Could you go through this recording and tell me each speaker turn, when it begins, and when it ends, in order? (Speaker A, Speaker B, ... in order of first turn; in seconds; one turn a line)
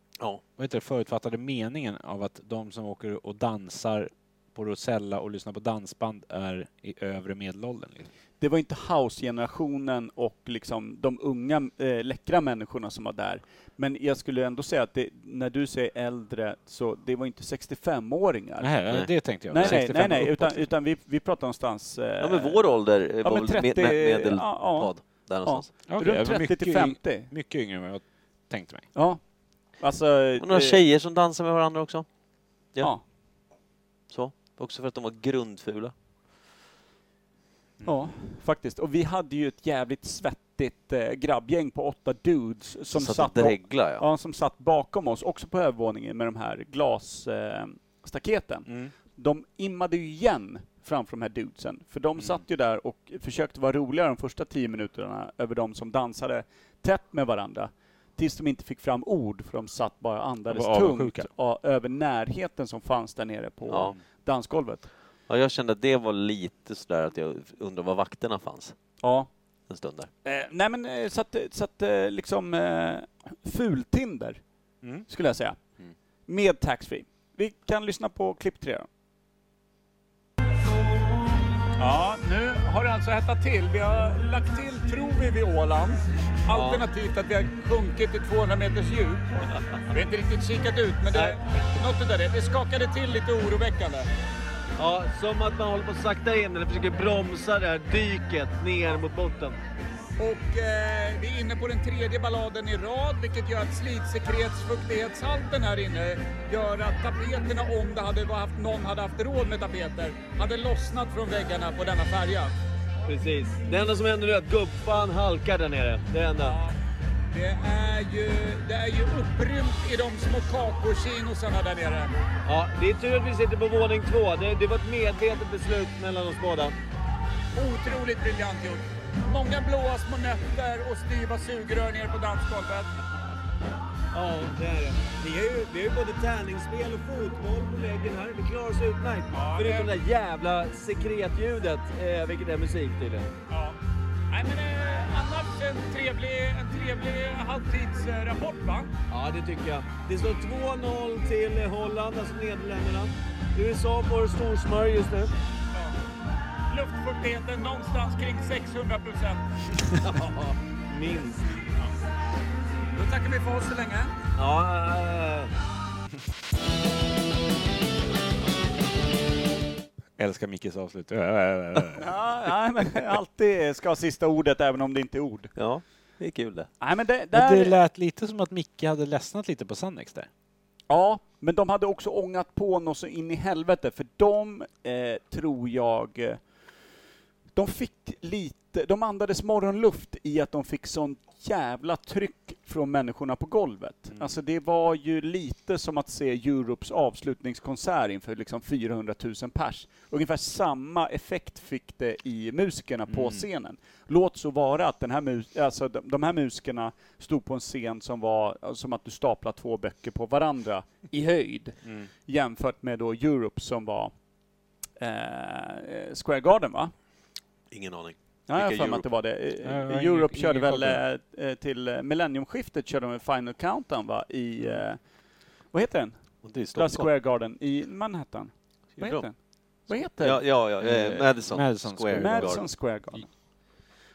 Speaker A: 0.6-8.1
Speaker B: 8.4-18.8
Speaker A: 18.6-20.7
Speaker C: 18.9-19.8
Speaker B: 19.5-22.7
Speaker C: 22.2-25.7
Speaker B: 23.2-27.3
Speaker A: 25.9-28.9
Speaker B: 28.9-29.2
Speaker B: 29.7-30.8
Speaker C: 30.4-32.1
Speaker C: 34.1-35.9
Speaker B: 37.8-64.9
Speaker C: 42.9-44.0
Speaker A: 48.7-48.9
Speaker A: 60.5-61.3
Speaker C: 63.7-64.0
Speaker C: 65.3-68.8
Speaker B: 69.0-69.3
Speaker C: 69.7-70.1
Speaker B: 70.2-74.4
Speaker B: 75.1-75.6
Speaker B: 76.3-78.9
Speaker D: 81.8-89.3
Speaker E: 86.5-86.9
Speaker D: 89.9-94.1
Speaker E: 91.1-91.4
Speaker E: 94.8-99.6
Speaker D: 100.2-112.5
Speaker E: 113.1-116.6
Speaker D: 116.4-116.7
Speaker D: 117.3-122.1
Speaker E: 122.5-126.8
Speaker D: 127.5-132.9
Speaker E: 134.1-143.3
Speaker D: 139.3-139.9
Speaker D: 143.5-143.8
Speaker D: 144.3-148.9
Speaker E: 149.1-155.3
Speaker D: 156.7-159.5
Speaker E: 160.0-161.4
Speaker D: 162.9-164.1
Speaker E: 164.4-165.5
Speaker A: 170.2-172.2
Speaker B: 172.0-175.5
Speaker C: 175.6-176.7
Speaker B: 176.8-177.8
Speaker A: 177.3-180.3
Speaker B: 180.9-186.4
Speaker B: 187.6-214.1
Speaker A: 194.1-194.4
Speaker A: 203.1-203.5
Speaker A: 211.8-212.1
Speaker B: 215.0-216.9
Speaker C: 217.7-219.1
Speaker B: 218.5-225.0
Speaker A: 219.6-221.0
Speaker B: 225.7-230.9
Speaker C: 226.4-227.1
Speaker C: 229.0-229.3
Speaker C: 230.2-232.7
Speaker A: 230.8-233.2
Speaker B: 232.2-233.3